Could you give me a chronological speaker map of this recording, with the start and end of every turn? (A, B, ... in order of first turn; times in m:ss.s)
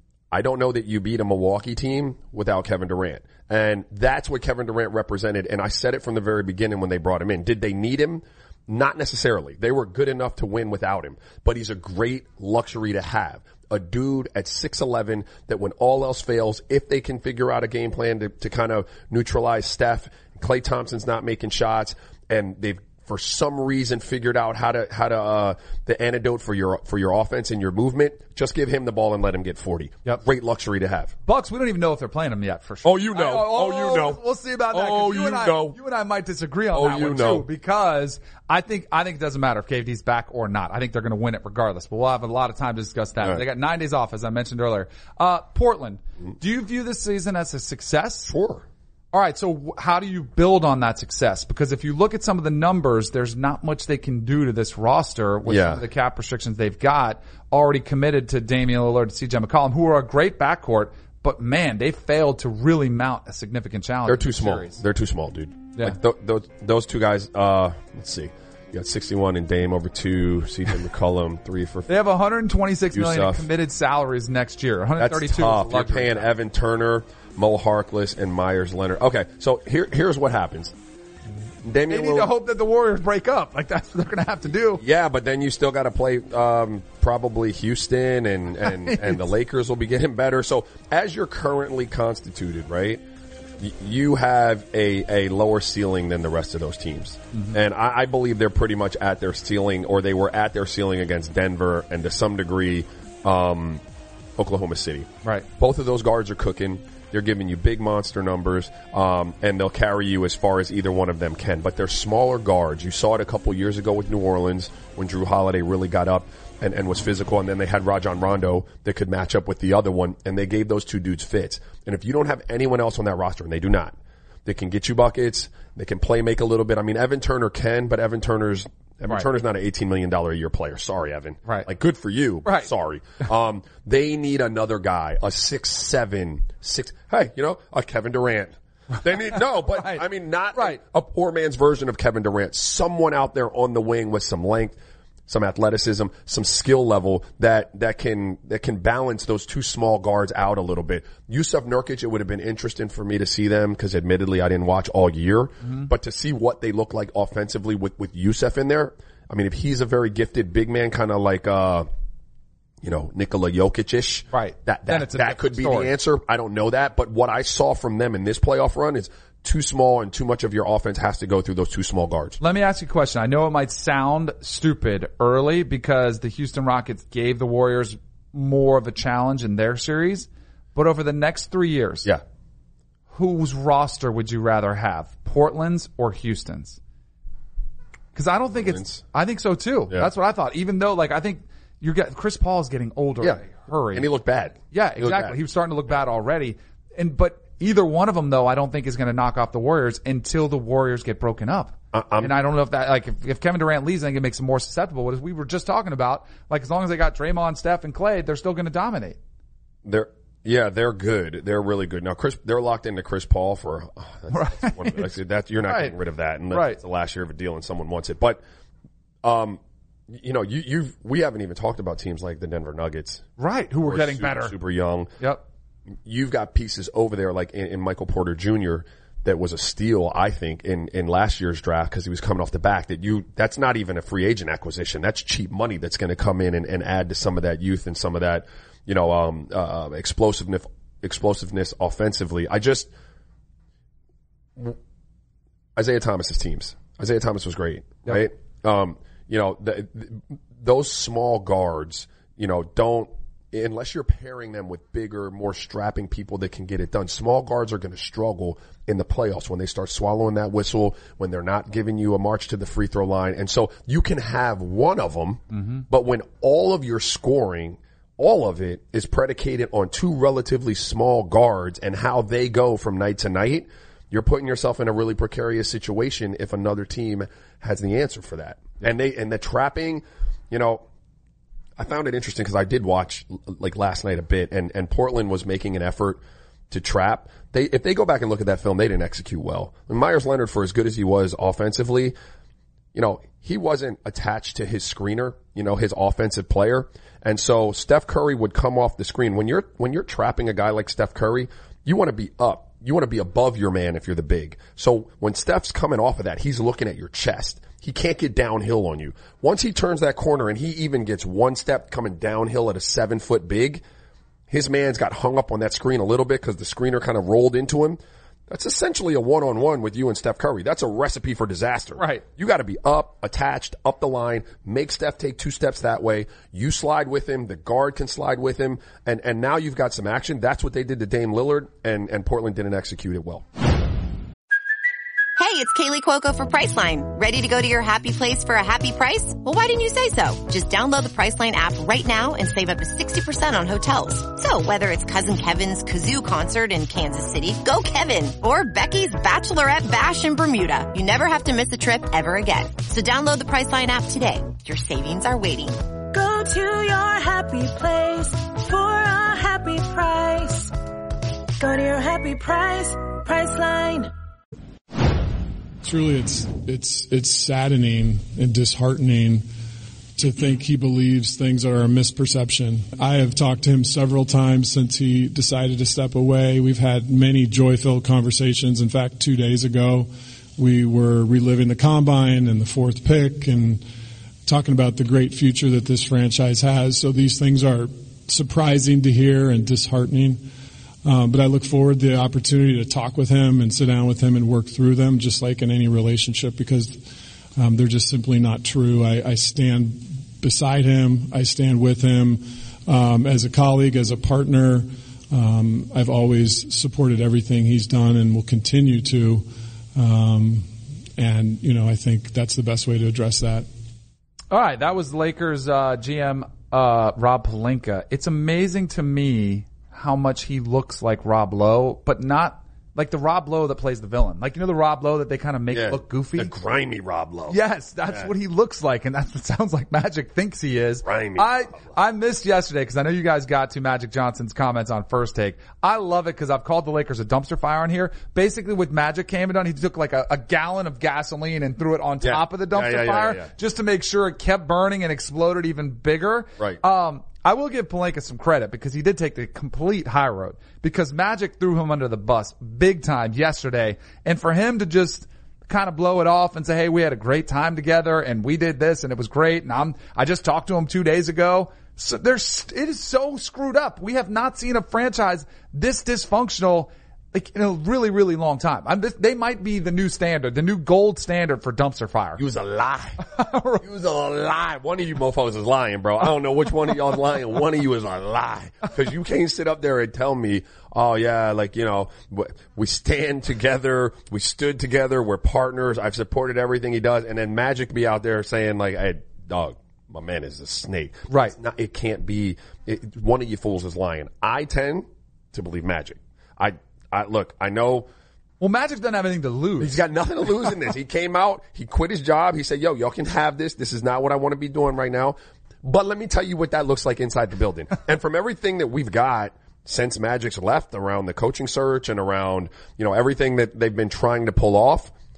0:00.3-0:31.1 A
0:31.2-0:48.3 B
0:32.8-0:34.2 A
0:34.7-0:35.8 A
0:36.7-0:37.5 A
0:48.2-0:48.6 A
0:49.1-1:04.8 B
0:55.5-0:55.8 A
1:04.0-1:12.0 A
1:11.9-1:16.2 B
1:12.9-1:13.5 A
1:15.0-1:20.7 A
1:21.6-1:22.3 A
1:21.9-1:24.8 B
1:24.8-1:33.0 A
1:28.6-1:29.2 B
1:33.6-1:43.8 A
1:37.3-1:37.6 B
1:44.4-2:41.9 A
2:12.4-2:12.7 B
2:19.3-2:20.0 B
2:20.5-2:20.8 B
2:35.6-2:35.9 B
2:42.8-2:52.4 A
2:44.3-2:45.9 B
2:52.4-3:02.1 B
3:03.1-3:06.8 B
3:08.1-3:14.1 B
3:08.5-3:09.0 A
3:13.2-3:15.4 A
3:14.7-3:29.2 B
3:21.9-3:22.4 A
3:29.8-3:38.4 A
3:34.3-3:35.1 B
3:35.7-3:35.9 B
3:36.5-3:36.8 B
3:39.2-3:43.3 A
3:43.4-3:44.6 B
3:43.8-3:45.1 A
3:46.0-4:02.9 A
4:05.8-4:40.8 A
4:25.5-4:25.8 B
4:41.8-4:52.1 A
4:52.9-5:13.8 A
5:14.5-5:33.4 A
5:22.0-5:22.2 B
5:35.4-5:55.8 C
5:56.1-6:00.7 D
6:01.6-6:04.1 D
6:05.8-6:09.4 E
6:10.2-6:23.8 E
6:24.4-6:30.4 E
6:31.0-6:37.0 E
6:37.6-6:53.7 E
6:54.5-7:06.5 B
7:05.7-7:08.3 A
7:07.5-7:52.4 B
7:11.0-7:11.8 A
7:22.2-7:23.5 A
7:52.4-7:53.2 A
7:53.2-7:53.8 B
7:53.8-8:18.1 A
8:11.3-8:11.5 B
8:18.6-8:20.0 B
8:19.8-8:35.1 A